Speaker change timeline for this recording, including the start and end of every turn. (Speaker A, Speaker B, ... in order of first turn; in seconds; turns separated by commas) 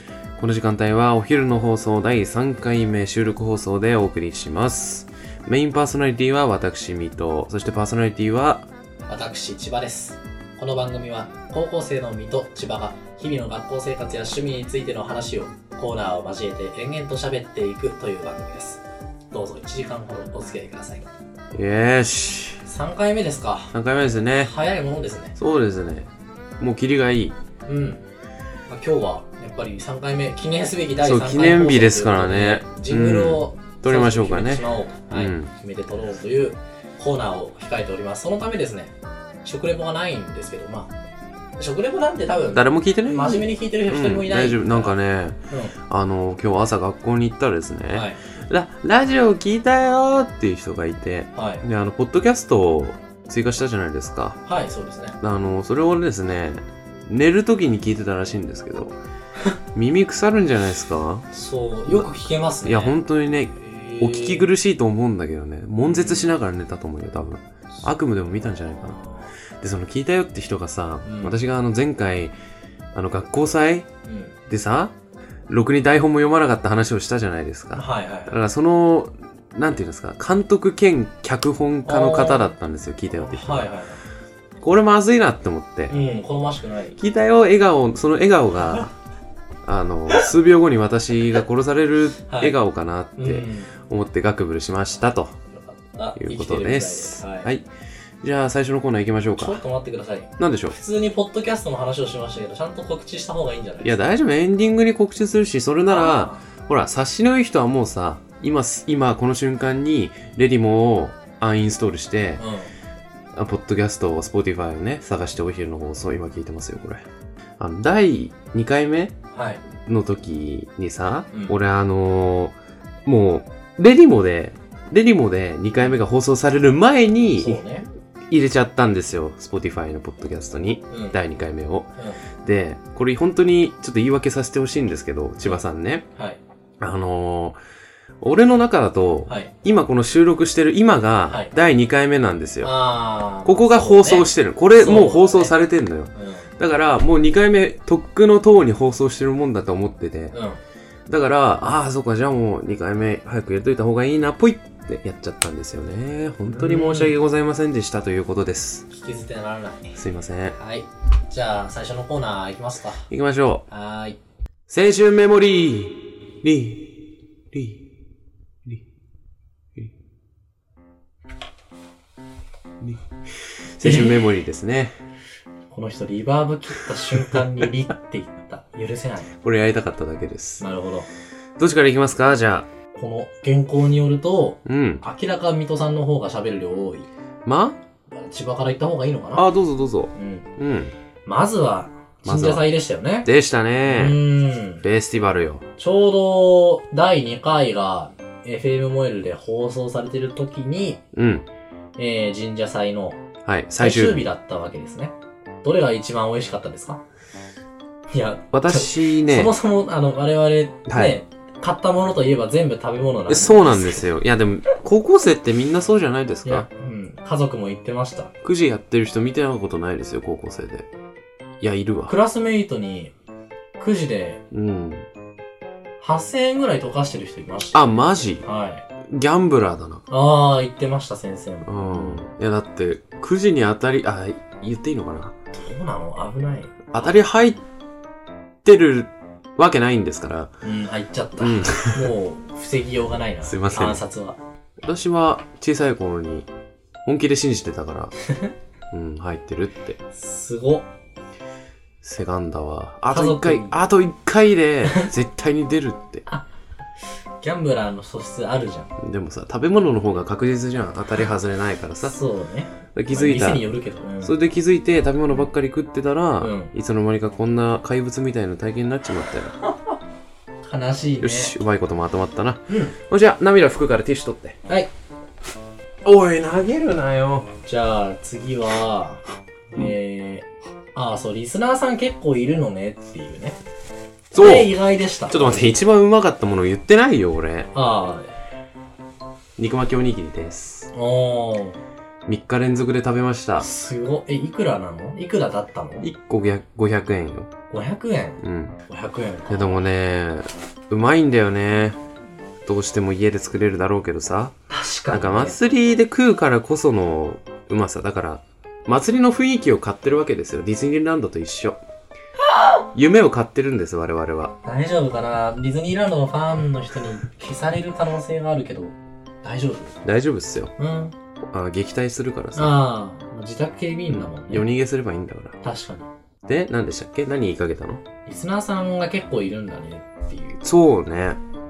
Speaker A: 0.4-8.7, Speaker B: 9.1-21.1, Speaker A: 21.5-22.6, Speaker B: 22.6-23.7, Speaker A: 23.7-24.5, Speaker B: 24.4-25.4, Speaker A: 25.4-26.1, Speaker A: 26.6-27.3, Speaker B: 27.6-28.0, Speaker B: 28.7-40.9, Speaker A: 31.0-35.5, Speaker B: 41.6-44.9, Speaker A: 42.5-54.4, Speaker B: 45.5-45.7, Speaker B: 47.9-48.2, Speaker B: 51.3-51.6, Speaker B: 54.5-55.2, Speaker A: 55.2-58.9, Speaker A: 59.7-61.3, Speaker B: 61.3-63.0, Speaker A: 61.9-69.0, Speaker B: 63.6-64.5, Speaker B: 65.8-66.3, Speaker B: 68.9-69.3, Speaker A: 69.6-72.3, Speaker B: 71.0-71.4, Speaker A: 72.9-73.9, Speaker B: 74.0-74.3, Speaker A: 74.5-74.9, Speaker A: 75.5-83.7, Speaker B: 77.7-78.3, Speaker B: 81.8-82.5, Speaker B: 83.1-84.0, Speaker A: 84.6-86.0, Speaker B: 85.9-87.0, Speaker A: 87.0-88.9, Speaker A: 89.6-95.3, Speaker B: 92.3-92.5, Speaker B: 93.2-93.7, Speaker B: 95.5-97.5, Speaker A: 96.2-97.7, Speaker A: 98.2-99.6, Speaker B: 99.4-104.2, Speaker A: 100.4-100.8, Speaker A: 103.8-112.4, Speaker B: 105.9-106.4, Speaker B: 112.4-112.7, Speaker A: 113.3-117.0, Speaker A: 117.6-119.1, Speaker B: 119.3-119.6, Speaker A: 119.8-127.6, Speaker B: 121.3-121.5, Speaker B: 127.4-127.9, Speaker A: 128.3-131.9, Speaker B: 130.9-131.2, Speaker A: 132.4-136.0, Speaker A: 136.8-137.6, Speaker A: 138.2-142.7, Speaker B: 139.3-139.5, Speaker B: 142.6-145.5, Speaker A: 143.4-150.3, Speaker B: 146.1-146.5, Speaker B: 150.3-150.6, Speaker A: 151.1-158.8, Speaker B: 156.5-157.1, Speaker B: 158.9-160.0, Speaker A: 159.9-160.6, Speaker B: 160.6-163.1, Speaker A: 163.1-163.6, Speaker B: 163.7-164.2, Speaker A: 164.7-167.8, Speaker A: 173.7-174.9, Speaker B: 173.8-174.3, Speaker B: 175.7-179.3, Speaker A: 179.4-180.6, Speaker B: 180.6-181.1, Speaker A: 181.6-182.7, Speaker B: 182.9-187.1, Speaker A: 184.6-185.0, Speaker A: 187.4-187.8, Speaker B: 188.1-189.4, Speaker A: 189.3-190.9, Speaker B: 190.1-190.5, Speaker B: 191.2-193.3, Speaker A: 192.2-192.7, Speaker A: 193.2-194.2, Speaker B: 193.8-194.8, Speaker A: 194.8-195.6, Speaker B: 195.8-201.0, Speaker A: 201.1-201.4, Speaker B: 202.0-203.2, Speaker A: 203.4-204.2, Speaker B: 203.8-207.0, Speaker B: 208.1-214.1, Speaker A: 208.5-209.5, Speaker A: 210.9-211.2, Speaker A: 213.3-216.7, Speaker B: 216.4-218.3, Speaker A: 218.4-220.9, Speaker A: 221.6-222.2, Speaker B: 222.1-223.1, Speaker B: 223.8-224.4, Speaker A: 224.5-225.1, Speaker B: 226.0-227.9, Speaker A: 227.7-228.4, Speaker B: 228.4-228.8, Speaker A: 229.0-230.0, Speaker B: 230.1-232.2, Speaker A: 231.6-235.3, Speaker B: 235.5-237.2, Speaker A: 236.9-237.6, Speaker A: 238.6-240.5, Speaker B: 240.6-244.4, Speaker A: 241.4-242.1, Speaker A: 243.4-244.0, Speaker A: 244.8-246.5, Speaker A: 247.0-248.1, Speaker B: 248.2-248.5, Speaker A: 248.9-250.0, Speaker B: 250.1-250.8, Speaker A: 252.0-256.2, Speaker B: 253.1-253.8, Speaker B: 257.4-258.9, Speaker A: 259.0-262.1, Speaker B: 262.0-264.3, Speaker A: 262.9-263.6, Speaker A: 264.2-269.5, Speaker B: 266.4-266.7, Speaker B: 270.6-271.6, Speaker A: 271.2-274.6, Speaker B: 272.7-272.9, Speaker A: 276.0-277.5, Speaker B: 277.6-279.2, Speaker B: 279.7-283.6, Speaker A: 284.3-284.7, Speaker B: 284.3-285.8, Speaker A: 285.3-287.7, Speaker B: 287.7-288.3, Speaker A: 289.6-290.9, Speaker B: 290.9-291.8, Speaker A: 292.2-293.7, Speaker B: 293.6-296.1, Speaker A: 296.0-297.5, Speaker B: 297.7-299.8, Speaker A: 298.4-298.8, Speaker A: 299.5-302.0, Speaker A: 302.6-304.5, Speaker B: 304.7-305.6, Speaker A: 305.1-311.8, Speaker A: 312.9-314.5, Speaker B: 314.6-320.0, Speaker A: 320.0-320.7, Speaker B: 320.8-321.1, Speaker A: 321.4-322.8, Speaker B: 322.5-324.6, Speaker A: 324.1-325.6, Speaker B: 325.6-326.1, Speaker A: 326.4-328.0, Speaker B: 328.2-330.6, Speaker A: 330.6-331.4